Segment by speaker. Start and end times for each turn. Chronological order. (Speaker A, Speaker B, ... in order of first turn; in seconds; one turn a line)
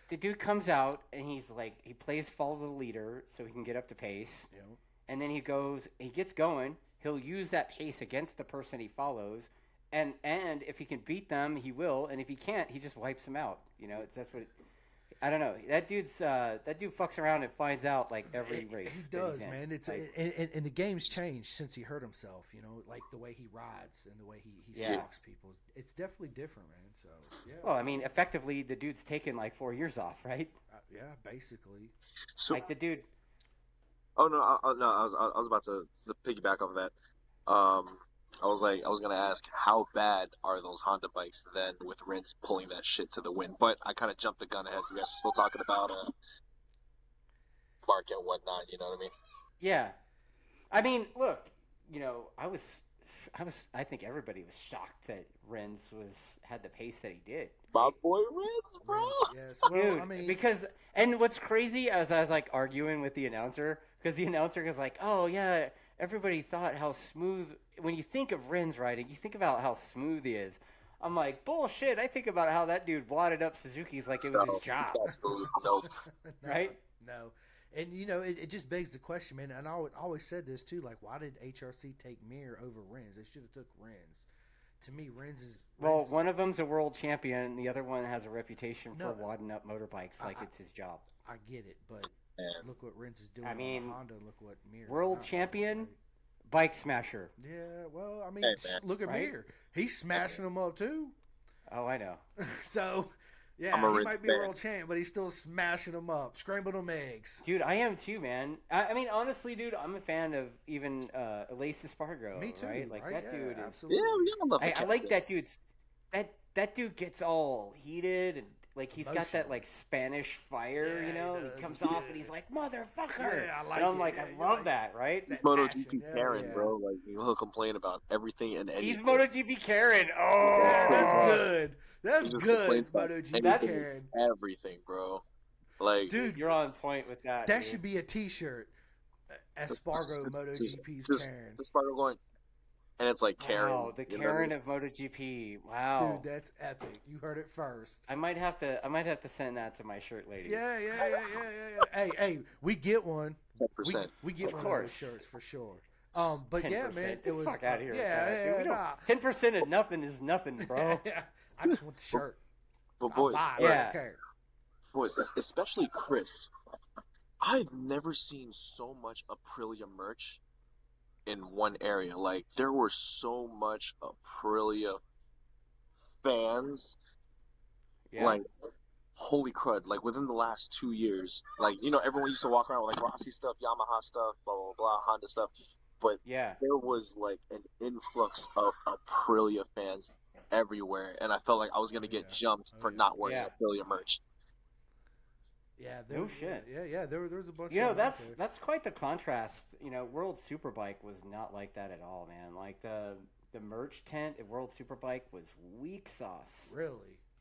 Speaker A: 0.1-4.5
Speaker B: 4.5-4.8
Speaker A: 5.1-14.5
Speaker A: 15.2-20.1
Speaker B: 18.3-28.1
Speaker A: 24.7-25.1
Speaker C: 24.8-25.0
Speaker A: 27.6-30.6
Speaker B: 30.7-31.9
Speaker C: 32.4-32.7
Speaker A: 32.5-33.1
Speaker C: 34.2-36.9
Speaker C: 37.5-46.1
Speaker C: 47.8-49.1
Speaker A: 49.6-50.0
Speaker A: 50.7-57.9
Speaker C: 57.7-59.3
Speaker B: 58.8-60.4
Speaker A: 59.7-75.2
Speaker C: 74.3-75.9
Speaker B: 75.8-84.3
Speaker A: 76.4-76.8
Speaker B: 84.8-86.2
Speaker A: 85.8-91.1
Speaker B: 88.9-89.3
Speaker B: 90.2-90.5
Speaker B: 91.2-96.0
Speaker C: 92.4-92.6
Speaker A: 93.4-94.0
Speaker A: 94.9-95.9
Speaker A: 96.5-97.3
Speaker B: 97.4-101.2
Speaker C: 98.4-98.8
Speaker A: 99.0-99.3
Speaker A: 101.7-102.2
Speaker B: 102.4-107.4
Speaker C: 103.7-104.5
Speaker A: 107.4-113.8
Speaker B: 112.3-114.3
Speaker C: 113.9-115.2
Speaker A: 114.6-115.6
Speaker A: 116.1-125.5
Speaker B: 119.0-119.6
Speaker B: 120.8-122.3
Speaker B: 123.2-124.7
Speaker C: 125.3-129.2
Speaker B: 125.4-126.7
Speaker A: 128.8-131.4
Speaker C: 130.5-131.4
Speaker B: 130.5-134.1
Speaker C: 132.2-135.2
Speaker A: 133.4-133.9
Speaker C: 135.8-136.1
Speaker B: 136.1-136.6
Speaker A: 136.1-137.8
Speaker B: 137.4-138.7
Speaker B: 139.3-141.6
Speaker C: 139.7-142.2
Speaker C: 143.0-144.5
Speaker A: 143.4-146.3
Speaker B: 146.0-148.1
Speaker A: 148.1-150.6
Speaker B: 150.4-159.1
Speaker C: 151.0-151.3
Speaker C: 153.6-154.8
Speaker A: 154.4-155.2
Speaker A: 156.6-161.1
Speaker B: 160.6-162.4
Speaker C: 161.6-162.2
Speaker C: 163.0-163.8
Speaker B: 163.1-164.2
Speaker A: 163.6-164.0
Speaker C: 164.9-166.5
Speaker C: 167.4-170.4
Speaker C: 171.3-175.0
Speaker C: 176.2-177.0
Speaker A: 178.1-178.4
Speaker C: 178.2-178.4
Speaker C: 179.2-194.2
Speaker A: 186.2-186.6
Speaker B: 191.9-193.1
Speaker A: 193.2-193.5
Speaker B: 195.8-198.4
Speaker A: 196.1-196.7
Speaker A: 197.7-206.8
Speaker B: 206.7-207.2